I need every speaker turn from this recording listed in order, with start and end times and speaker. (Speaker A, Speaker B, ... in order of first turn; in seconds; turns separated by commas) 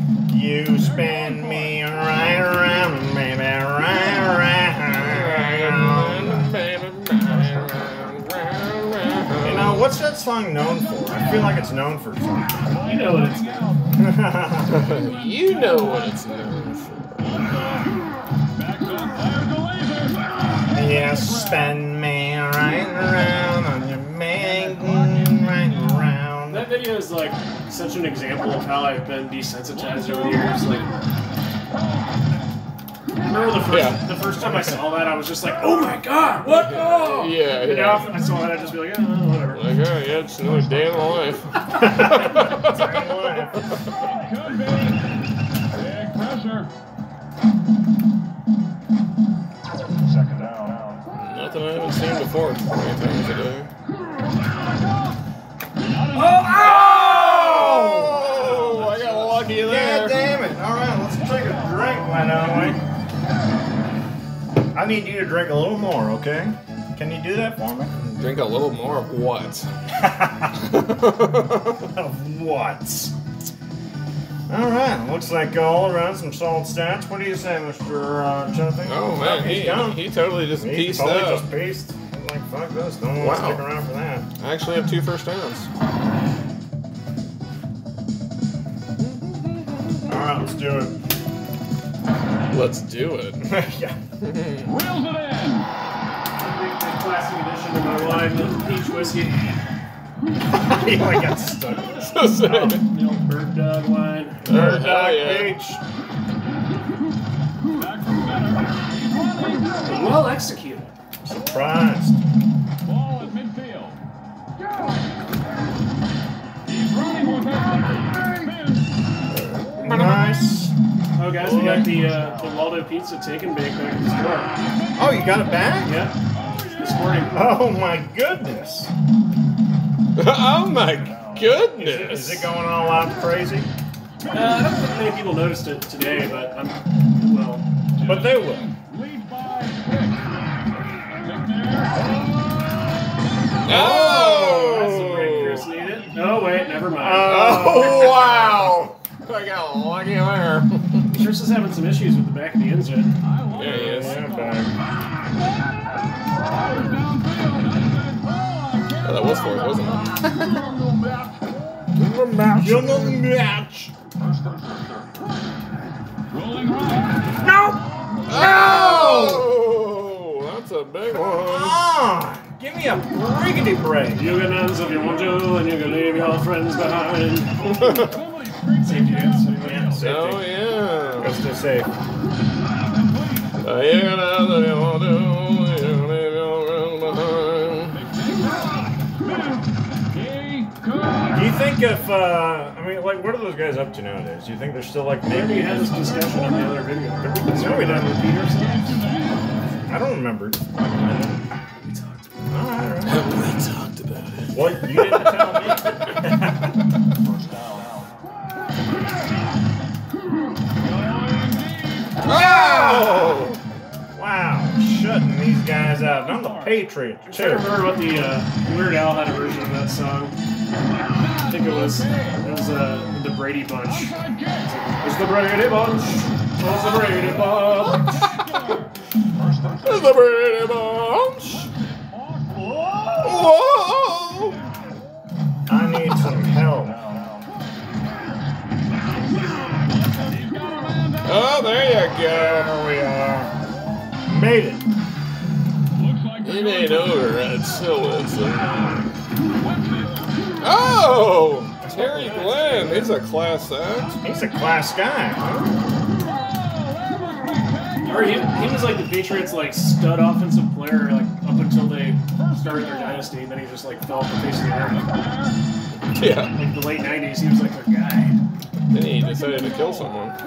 Speaker A: 0.3-6.5, Speaker B: 5.0-9.9, Speaker A: 9.4-12.8, Speaker C: 12.8-13.8, Speaker D: 13.2-13.6, Speaker A: 13.9-14.9, Speaker B: 14.7-17.5, Speaker D: 18.7-20.1, Speaker A: 20.7-26.7, Speaker C: 26.5-30.9, Speaker C: 33.2-39.7, Speaker B: 33.7-34.0, Speaker B: 36.5-38.1, Speaker B: 39.5-43.7, Speaker A: 41.8-43.7, Speaker D: 44.2-45.0, Speaker D: 45.8-46.7, Speaker B: 51.1-53.7, Speaker C: 56.1-58.2, Speaker B: 56.5-60.2, Speaker A: 59.6-62.8, Speaker A: 64.7-67.9, Speaker B: 68.0-69.7, Speaker A: 69.9-70.6, Speaker B: 70.6-71.8, Speaker A: 71.9-73.1, Speaker A: 74.5-84.3, Speaker B: 78.8-81.5, Speaker B: 83.2-83.6, Speaker B: 84.4-85.7, Speaker B: 89.0-90.0, Speaker A: 90.1-91.0, Speaker B: 92.5-93.5, Speaker A: 93.4-94.0, Speaker B: 94.2-94.8, Speaker D: 94.8-95.7, Speaker C: 96.4-99.6, Speaker A: 100.5-102.7, Speaker B: 102.0-102.8, Speaker C: 102.5-104.4, Speaker A: 104.5-105.8, Speaker B: 104.5-105.6, Speaker D: 108.0-109.7, Speaker C: 109.8-110.9, Speaker A: 111.2-112.2, Speaker D: 112.9-114.0, Speaker D: 116.7-118.8, Speaker B: 119.6-120.6, Speaker A: 119.8-120.7, Speaker C: 121.2-124.5, Speaker B: 121.4-121.9, Speaker A: 121.5-121.9, Speaker A: 125.0-126.0, Speaker C: 125.8-126.2, Speaker C: 126.7-127.4, Speaker A: 127.3-128.9, Speaker B: 130.2-132.5, Speaker A: 131.8-133.7, Speaker C: 134.3-137.7, Speaker A: 138.0-138.7, Speaker D: 138.1-140.3, Speaker D: 141.3-141.9, Speaker B: 143.7-145.7, Speaker A: 143.7-144.6, Speaker C: 144.3-147.4, Speaker A: 147.0-148.8, Speaker B: 147.2-151.2, Speaker C: 151.1-153.1, Speaker D: 153.3-154.5, Speaker B: 153.5-154.6, Speaker A: 153.6-154.7, Speaker D: 156.8-159.6, Speaker B: 159.0-160.6, Speaker B: 161.9-163.3, Speaker A: 162.6-163.9, Speaker D: 166.3-167.2, Speaker A: 167.4-169.5, Speaker B: 168.3-171.8, Speaker A: 171.3-174.4, Speaker C: 174.2-178.1, Speaker B: 177.7-178.1, Speaker D: 178.1-180.0, Speaker C: 178.8-179.8, Speaker A: 179.6-180.6, Speaker B: 180.0-181.4, Speaker A: 181.2-181.9, Speaker B: 183.6-188.0, Speaker D: 188.0-189.6, Speaker D: 190.2-191.2, Speaker A: 191.3-196.7, Speaker C: 195.3-199.1, Speaker A: 197.2-198.2, Speaker A: 199.9-200.8, Speaker B: 200.8-201.4, Speaker C: 201.8-202.2, Speaker A: 202.5-203.2, Speaker B: 203.1-205.8, Speaker A: 204.5-206.7, Speaker D: 211.1-212.1, Speaker B: 212.2-213.6, Speaker A: 212.2-213.4, Speaker A: 214.1-217.9, Speaker C: 217.3-220.3, Speaker C: 221.4-228.2, Speaker D: 228.2-228.8, Speaker B: 229.8-231.7, Speaker B: 233.2-234.6, Speaker A: 235.7-237.0, Speaker D: 240.3-241.2, Speaker B: 241.2-242.7, Speaker A: 242.3-243.5, Speaker A: 244.3-244.8, Speaker D: 246.0-246.9, Speaker B: 246.4-248.8, Speaker B: 250.6-254.2, Speaker C: 251.8-253.2, Speaker A: 254.2-255.5, Speaker B: 255.4-255.7, Speaker D: 257.0-258.1, Speaker C: 258.0-265.1, Speaker B: 266.1-266.5, Speaker C: 266.5-268.4, Speaker B: 268.9-270.4